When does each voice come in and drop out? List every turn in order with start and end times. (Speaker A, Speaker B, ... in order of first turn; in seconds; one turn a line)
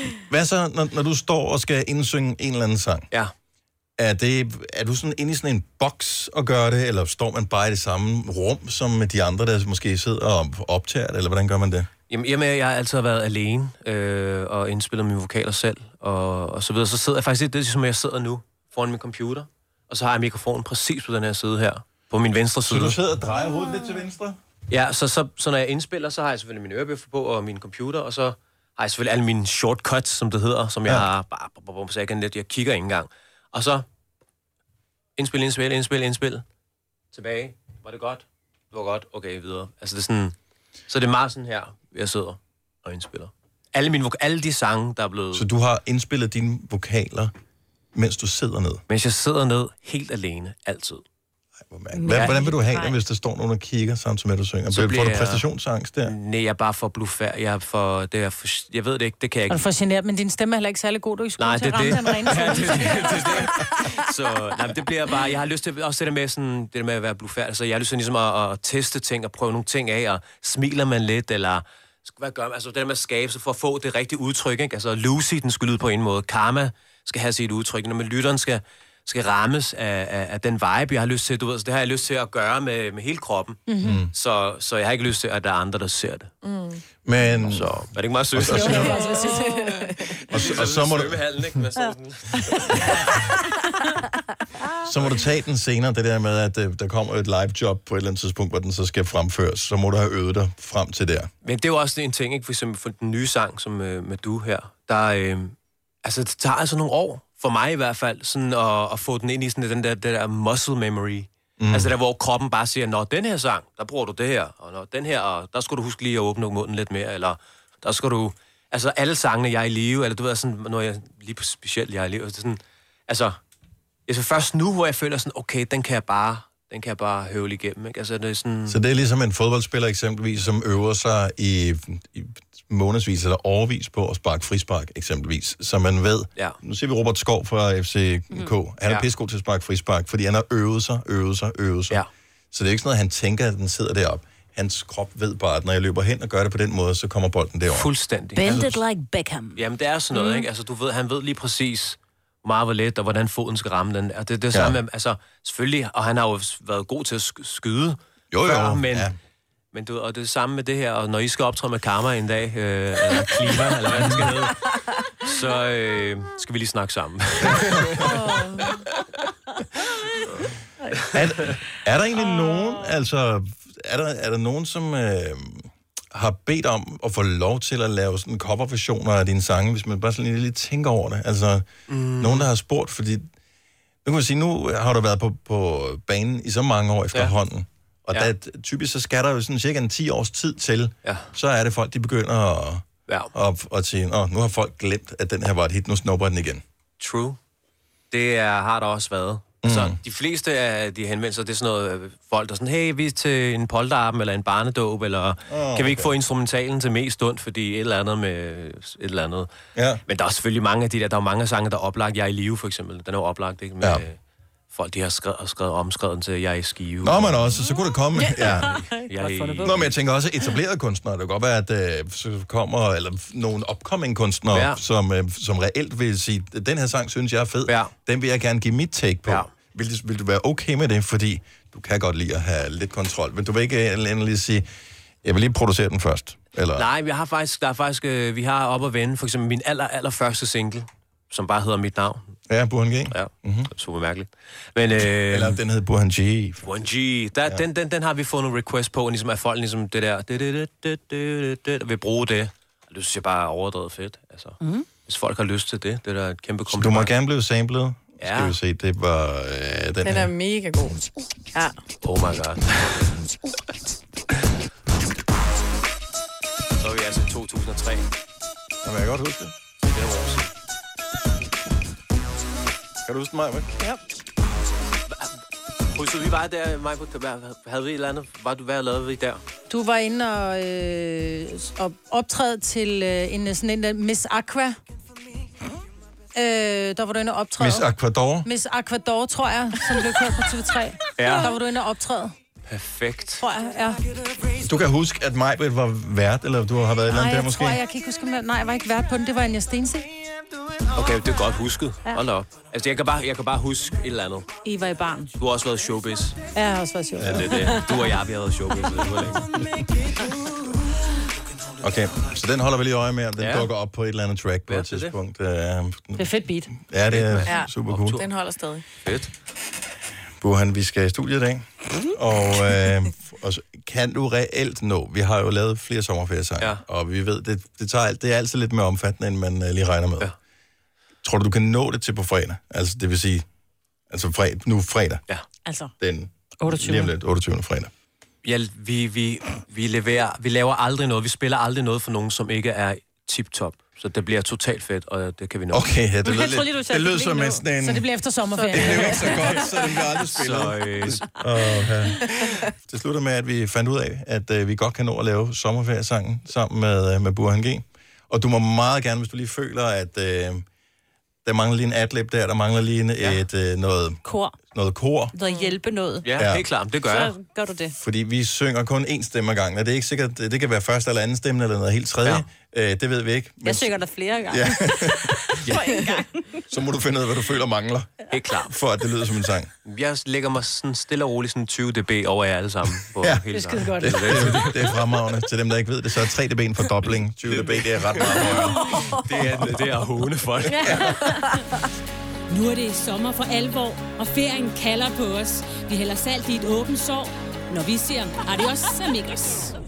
Speaker A: 0.3-3.1
Speaker A: 4.0-11.9
Speaker B: 12.1-23.0
Speaker A: 22.6-24.4
Speaker B: 24.7-33.9
Speaker B: 35.2-36.4
Speaker B: 37.1-40.4
Speaker B: 40.9-45.5
Speaker A: 45.3-47.3
Speaker A: 48.0-48.8
Speaker B: 48.9-51.0
Speaker A: 51.7-56.1
Speaker C: 52.0-52.9
Speaker B: 52.1-52.4
Speaker B: 54.7-55.5
Speaker B: 56.0-59.6
Speaker C: 59.5-63.6
Speaker B: 61.4-83.6
Speaker C: 83.7-84.0
Speaker A: 83.8-84.1
Speaker B: 84.1-86.3
Speaker D: 86.4-86.8
Speaker A: 87.0-89.0
Speaker B: 87.4-89.2
Speaker C: 88.4-89.9
Speaker D: 88.9-90.0
Speaker A: 90.3-91.2
Speaker B: 90.3-93.3
Speaker A: 94.8-101.3
Speaker B: 101.4-123.4
Speaker A: 111.6-111.9
Speaker B: 124.1-128.8
Speaker A: 128.7-142.0
Speaker A: 142.5-147.9
Speaker B: 147.7-148.8
Speaker E: 148.4-149.6
Speaker A: 148.4-148.8
Speaker B: 149.5-159.1
Speaker A: 154.5-154.8
Speaker A: 158.3-159.1
Speaker B: 159.7-168.1
Speaker A: 167.5-168.0
Speaker D: 168.0-168.8
Speaker A: 171.1-181.7
Speaker B: 181.9-182.5
Speaker A: 182.2-183.3
Speaker A: 184.1-196.6
Speaker B: 191.0-191.3
Speaker B: 197.0-197.4
Speaker B: 198.1-209.5
Speaker A: 199.6-200.0
Speaker A: 205.5-206.1
Speaker A: 209.8-210.0
Speaker B: 210.1-214.2
Speaker B: 214.7-217.5
Speaker A: 217.0-218.8
Speaker B: 218.3-219.9
Speaker E: 219.2-219.7
Speaker A: 219.6-234.7
Speaker B: 224.5-224.8
Speaker B: 227.7-227.9
Speaker A: 235.2-236.9
Speaker B: 236.8-242.3
Speaker A: 242.5-243.7
Speaker B: 243.1-245.6
Speaker A: 245.3-246.8
Speaker B: 246.6-257.1
Speaker A: 256.7-260.3
Speaker B: 258.2-258.6
Speaker D: 260.0-261.0
Speaker B: 262.0-263.2
Speaker B: 266.8-268.1
Speaker A: 268.8-269.5
Speaker B: 269.9-270.5
Speaker A: 273.1-273.7
Speaker B: 275.9-279.4
Speaker C: 279.7-284.8
Speaker C: 286.4-287.9
Speaker A: 287.6-288.5
Speaker C: 288.4-292.3
Speaker B: 291.2-291.6
Speaker B: 292.7-293.4
Speaker C: 293.4-294.0
Speaker A: 294.6-297.8
Speaker C: 297.1-300.1
Speaker B: 300.9-304.5
Speaker C: 304.6-305.3
Speaker B: 305.4-306.4
Speaker C: 306.5-307.9
Speaker A: 307.2-307.5
Speaker B: 307.2-309.5
Speaker A: 311.8-318.2
Speaker B: 313.4-313.7
Speaker B: 314.7-315.1
Speaker C: 316.2-316.7
Speaker B: 317.1-318.2
Speaker D: 317.5-318.8
Speaker B: 319.0-319.3
Speaker A: 320.4-330.3
Speaker A: 331.2-333.5
Speaker A: 334.1-335.2
Speaker C: 335.6-335.9
Speaker A: 336.0-337.9
Speaker C: 336.6-337.1
Speaker B: 338.4-345.9
Speaker A: 345.7-348.1
Speaker E: 346.2-347.6
Speaker C: 347.6-349.6
Speaker D: 348.6-349.1
Speaker A: 348.7-360.6
Speaker B: 350.1-351.3
Speaker A: 361.4-365.4
Speaker E: 364.2-364.5
Speaker E: 365.4-366.3
Speaker D: 365.4-365.7
Speaker B: 366.2-367.4
Speaker A: 366.4-366.7
Speaker E: 367.1-367.9
Speaker A: 367.9-375.8
Speaker E: 373.7-374.7
Speaker E: 375.7-376.4
Speaker A: 376.7-379.7
Speaker B: 378.3-378.8
Speaker B: 379.9-384.9
Speaker C: 383.6-384.5
Speaker A: 384.0-388.8
Speaker B: 387.4-391.2
Speaker C: 388.4-389.1
Speaker A: 390.8-391.2
Speaker C: 390.8-391.5
Speaker F: 392.5-399.8